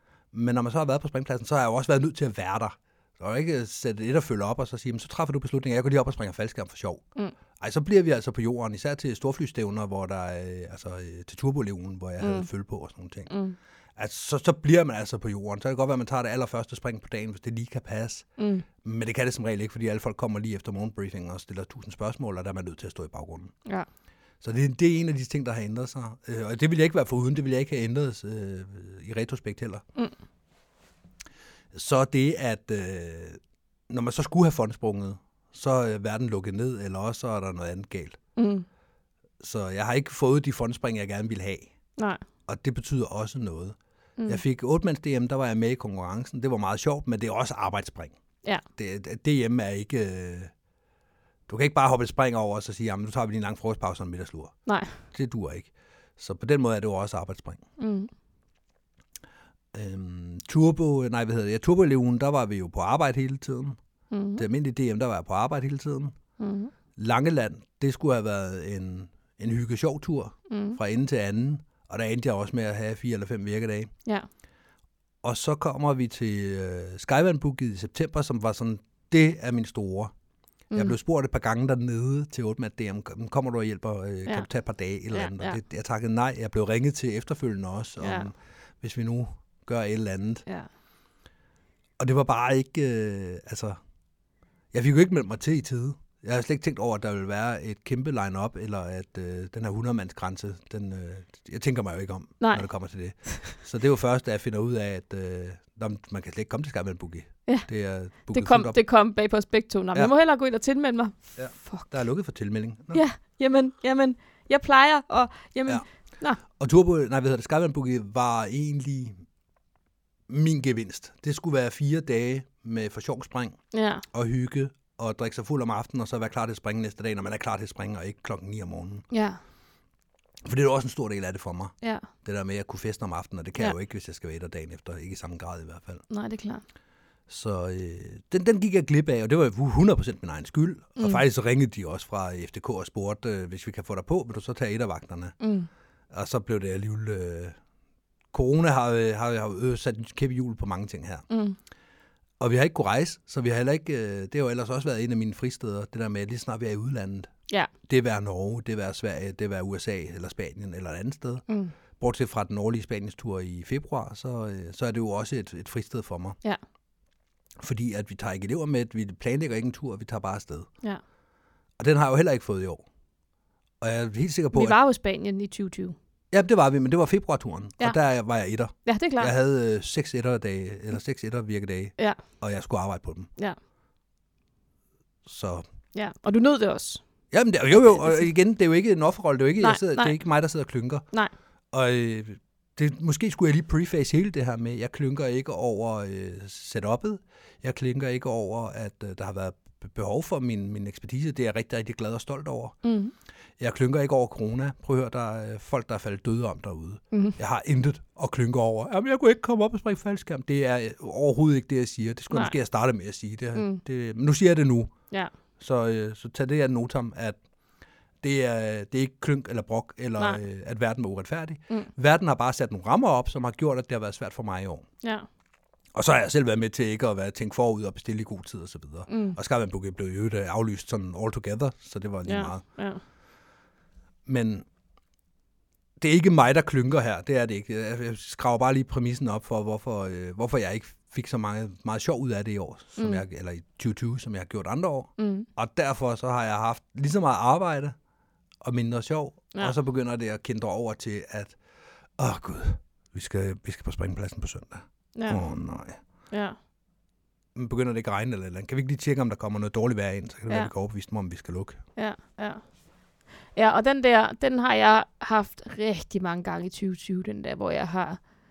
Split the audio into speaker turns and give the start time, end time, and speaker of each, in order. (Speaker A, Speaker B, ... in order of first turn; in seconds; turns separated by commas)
Speaker A: 0.3-7.0, Speaker A: 7.6-13.3, Speaker B: 12.2-12.5, Speaker B: 13.3-13.6, Speaker A: 14.0-23.5, Speaker B: 18.4-18.6, Speaker A: 24.4-29.8, Speaker A: 31.7-38.2, Speaker B: 38.4-38.7, Speaker A: 39.4-41.7, Speaker B: 42.0-42.2, Speaker A: 42.5-48.1, Speaker A: 48.8-50.5, Speaker A: 51.5-54.5, Speaker B: 54.7-55.0, Speaker A: 55.1-57.6, Speaker B: 57.8-58.1, Speaker A: 59.7-63.8, Speaker B: 64.1-64.4, Speaker A: 64.4-66.1, Speaker B: 66.4-66.7, Speaker A: 67.0-73.9, Speaker B: 70.5-70.8, Speaker A: 75.2-80.1, Speaker A: 80.8-90.5, Speaker B: 85.1-85.6, Speaker B: 88.0-88.3, Speaker A: 92.0-93.8, Speaker A: 94.7-108.8, Speaker B: 102.4-102.7, Speaker B: 103.3-103.5, Speaker B: 108.3-112.0, Speaker A: 111.4-113.0, Speaker B: 112.9-116.4, Speaker A: 116.4-119.2, Speaker A: 120.3-123.6, Speaker B: 123.7-124.0, Speaker A: 124.1-129.1, Speaker B: 129.1-129.4, Speaker A: 130.4-136.0, Speaker B: 131.8-132.1, Speaker B: 136.1-136.6, Speaker A: 137.3-145.4, Speaker B: 145.4-145.7, Speaker A: 146.1-147.6, Speaker A: 148.3-151.2, Speaker B: 151.3-151.6, Speaker A: 152.4-157.3, Speaker A: 157.8-161.4, Speaker B: 161.5-161.7, Speaker A: 162.0-166.4, Speaker A: 167.6-170.7, Speaker A: 171.8-172.8, Speaker A: 173.8-174.8, Speaker B: 174.5-176.0, Speaker A: 176.3-183.3, Speaker B: 178.8-179.3, Speaker A: 185.3-185.6, Speaker B: 185.9-187.0, Speaker A: 187.3-191.1, Speaker B: 187.7-188.2, Speaker B: 189.6-190.2, Speaker A: 191.7-202.8, Speaker B: 202.8-203.1, Speaker A: 203.6-214.9, Speaker B: 207.1-207.4, Speaker B: 213.6-213.8, Speaker A: 215.6-217.4, Speaker A: 218.2-224.9, Speaker B: 225.0-225.3, Speaker A: 225.9-232.6, Speaker B: 229.1-229.4, Speaker B: 232.3-233.0, Speaker A: 234.3-234.7, Speaker A: 236.0-247.9, Speaker B: 243.0-243.2, Speaker B: 245.2-245.5, Speaker A: 248.6-251.6, Speaker A: 252.2-256.0, Speaker B: 255.2-255.4, Speaker B: 256.3-256.6, Speaker A: 257.6-261.8, Speaker B: 262.0-262.6, Speaker B: 263.6-268.2